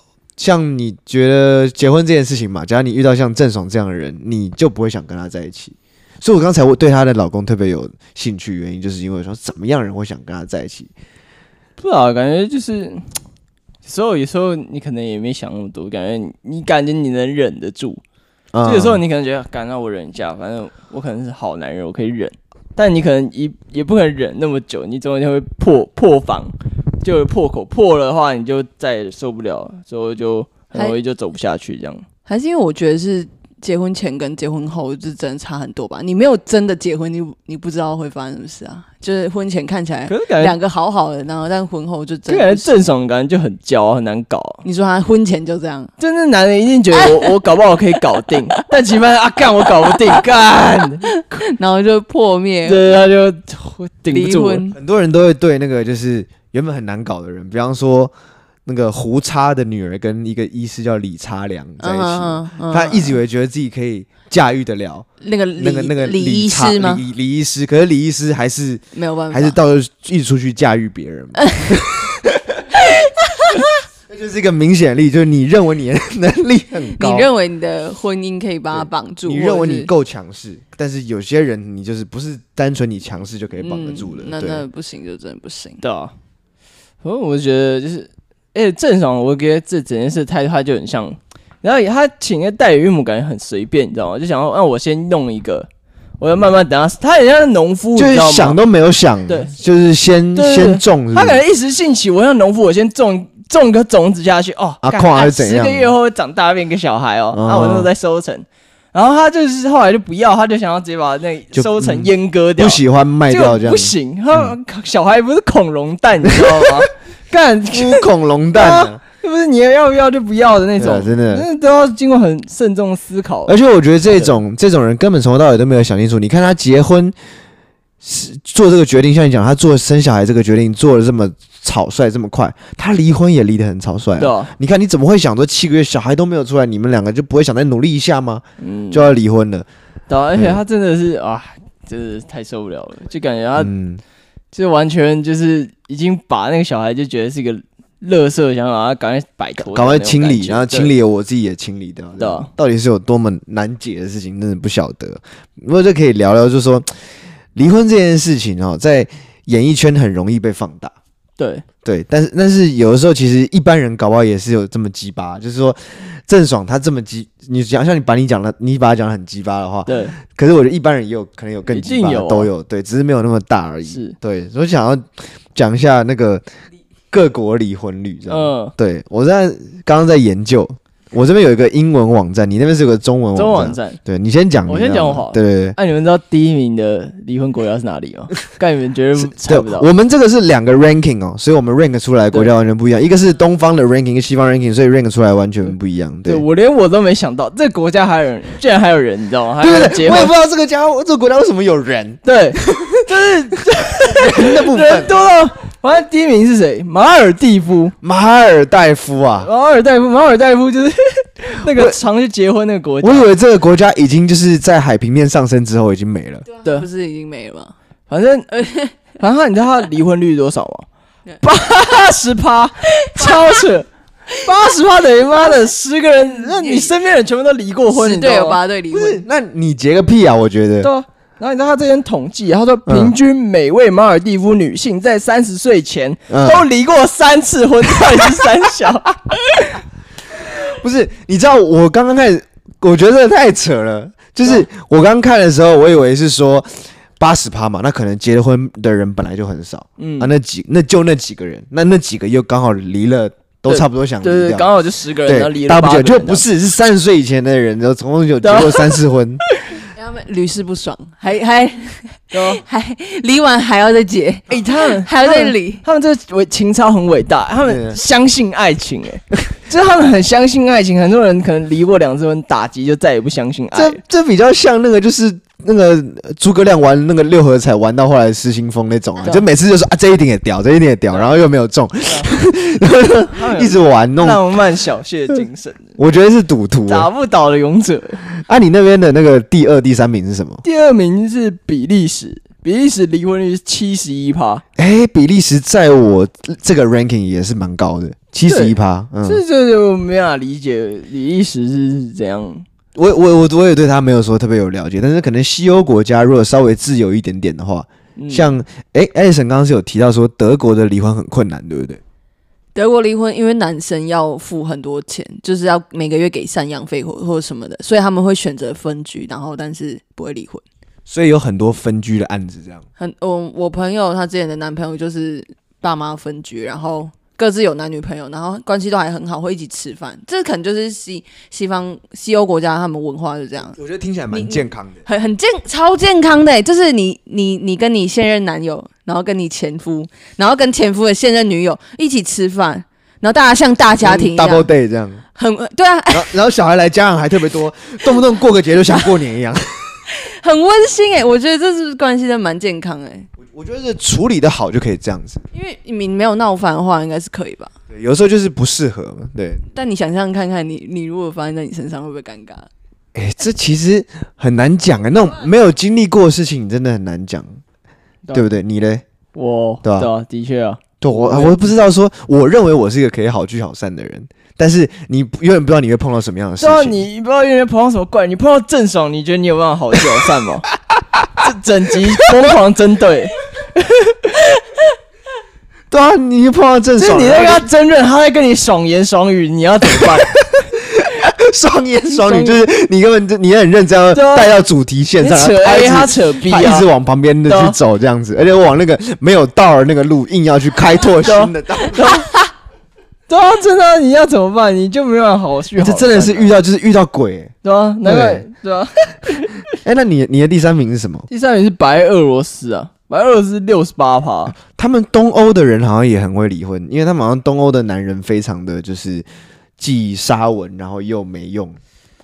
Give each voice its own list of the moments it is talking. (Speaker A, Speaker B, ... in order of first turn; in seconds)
Speaker A: 0.4-10.9, 18.5-19.0, 54.7-58.1, 58.6-65.1, 65.6-72.7, 74.1-77.3, 78.7-84.6, 98.0-101.4, 104.8-105.9, 107.3-107.9, 111.5-114.5, 116.3-116.8, 117.7-119.0, 120.8-121.5, 123.5-127.1, 128.0-139.7, 143.6-144.0, 149.6-156.9, 157.5-160.9, 161.8-176.4, 177.1-185.8, 189.2-196.4, 199.6-203.0, 204.0-205.1, 208.0-209.5, 211.7-212.0, 213.0-216.4, 228.9-230.9, 232.8-233.1, 236.3-236.7, 240.4-254.7, 255.2-259.4, 267.6-268.0, 273.7-284.4, 286.0-287.1, 288.3-290.6, 294.8-299.4, 302.9-312.0, 321.1-322.8, 333.7-335.0, 344.0-345.2, 346.1-350.0, 353.4-355.4, 357.9-359.6, 363.1-367.6, 368.3-369.0, 369.8-370.1, 371.0-377.0, 385.9-387.7, 390.0-402.2, 405.8-407.5, 408.0-408.4, 409.8-411.3, 414.6-419.2, 419.8-421.8
Speaker B: 11.8-13.0, 13.8-18.0, 18.6-32.0, 40.1-40.6, 42.3-44.6, 46.0-51.2, 52.6-54.6, 85.8-86.1, 87.0-95.7, 96.2-98.6, 100.3-123.5, 134.2-134.5, 138.6-139.1, 140.1-143.7, 144.5-150.9, 152.2-152.5, 161.4-161.6, 169.9-170.2, 171.7-172.5, 173.8-174.2, 178.3-178.7, 183.3-184.0, 184.7-189.9, 196.2-200.3, 202.2-207.9, 209.4-213.3, 218.1-218.5, 219.2-220.8, 221.4-228.6, 230.8-239.8, 250.0-250.3, 253.7-256.4, 258.4-259.8, 262.3-262.6, 264.5-274.0, 282.0-282.3, 283.3-285.9, 286.9-288.2, 290.6-294.6, 298.5-302.6, 308.1-308.5, 369.3-371.6, 376.6-380.7, 381.4-384.6, 387.0-390.3, 392.1-392.6, 394.1-394.5, 395.2-396.9, 397.5-397.8, 401.2-402.4, 403.3-406.5, 407.6-409.6, 411.3-414.5
Speaker C: 32.3-42.7, 44.6-45.9, 46.9-47.3, 49.6-50.2, 51.3-52.9, 54.1-54.8, 61.8-63.2, 65.2-67.0, 68.9-69.6, 71.3-71.7, 72.7-73.7, 76.9-79.9, 83.6-85.8, 216.6-217.7, 218.5-218.9, 223.0-223.6, 226.5-226.9, 227.9-229.2, 259.9-265.8, 312.7-320.6, 323.0-333.8, 334.3-344.7, 345.3-346.3, 350.1-353.3, 355.5-357.7, 359.7-362.7